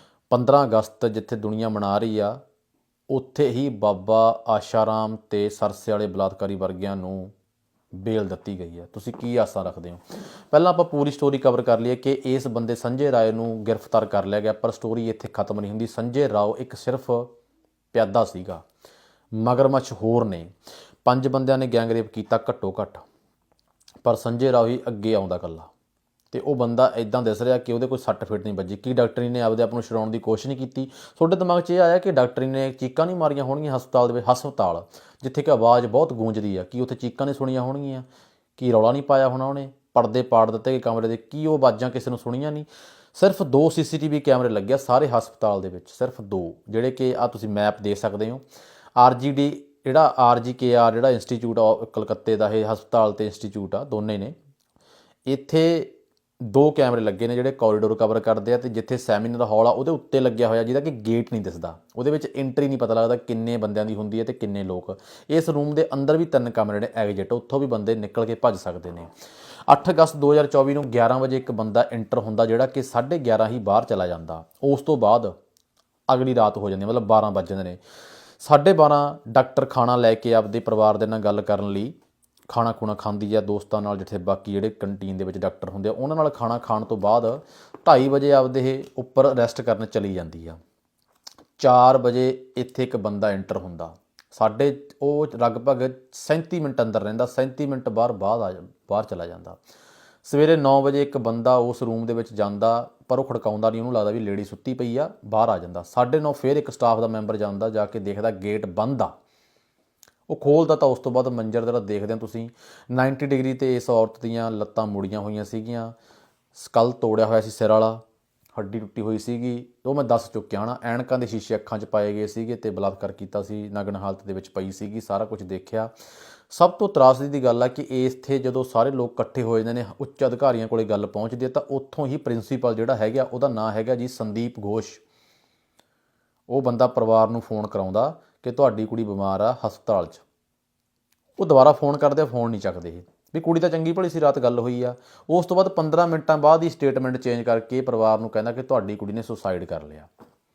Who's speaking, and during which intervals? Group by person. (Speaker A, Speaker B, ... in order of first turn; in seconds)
Speaker A: 0.3-2.4, 3.1-7.3, 8.0-17.3, 17.9-18.6, 19.4-20.5, 21.1-23.0, 24.0-25.7, 26.3-38.1, 38.6-48.4, 49.0-54.4, 55.3-69.1, 69.7-75.3, 76.1-77.8, 78.4-81.9, 82.5-90.6, 91.6-99.6, 100.2-109.1, 110.3-115.9, 116.5-118.0, 118.5-125.9, 126.5-135.0, 136.5-140.2, 141.4-150.1